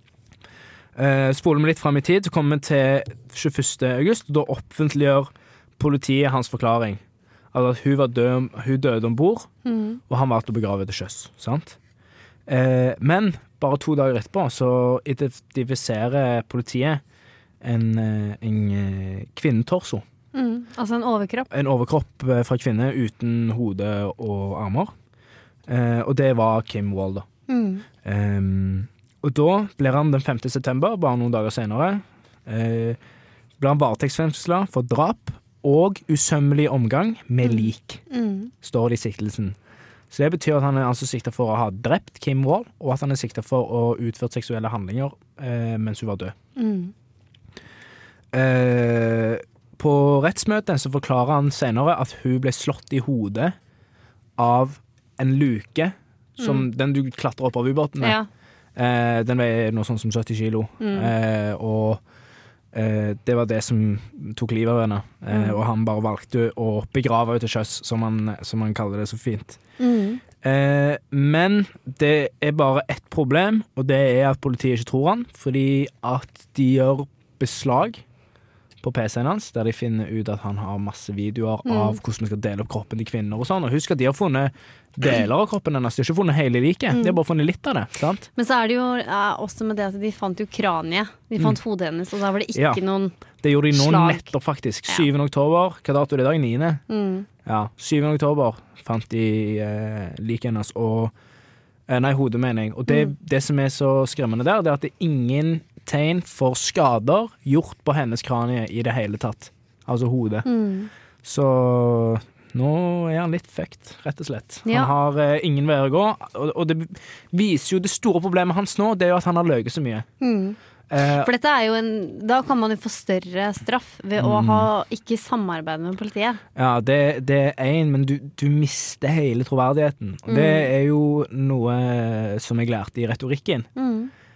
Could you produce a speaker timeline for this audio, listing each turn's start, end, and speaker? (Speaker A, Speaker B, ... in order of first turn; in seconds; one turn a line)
Speaker A: 0.9-7.0
Speaker A: 7.5-9.5
Speaker B: 9.6-10.0
Speaker A: 10.1-11.8
Speaker A: 12.5-17.0
Speaker A: 17.6-20.0
Speaker B: 20.3-21.5
Speaker A: 21.5-24.9
Speaker A: 25.7-27.2
Speaker B: 27.5-27.9
Speaker A: 28.0-33.0
Speaker A: 33.6-38.0
Speaker B: 37.4-38.5
Speaker A: 38.6-39.5
Speaker A: 40.1-46.3
Speaker B: 46.5-46.9
Speaker A: 48.3-53.5
Speaker A: 54.4-58.2
Speaker B: 56.4-56.6
Speaker B: 58.0-58.3
Speaker A: 58.8-62.0
Speaker B: 60.8-61.1
Speaker A: 62.7-69.6
Speaker B: 65.3-65.6
Speaker B: 69.8-70.2
Speaker A: 70.4-78.0
Speaker A: 78.8-88.2
Speaker B: 81.7-82.0
Speaker B: 86.9-87.2
Speaker B: 88.3-93.2
Speaker A: 92.5-92.8
Speaker A: 93.4-96.8
Speaker B: 93.7-94.3
Speaker B: 96.9-97.3
Speaker A: 97.4-101.1
Speaker A: 101.9-110.5
Speaker B: 110.5-110.9
Speaker A: 111.2-120.1
Speaker B: 114.7-114.9
Speaker B: 120.2-120.6
Speaker A: 120.9-121.3
Speaker B: 121.1-126.4
Speaker A: 124.2-124.7
Speaker A: 126.5-133.7
Speaker B: 130.3-130.7
Speaker B: 133.8-134.1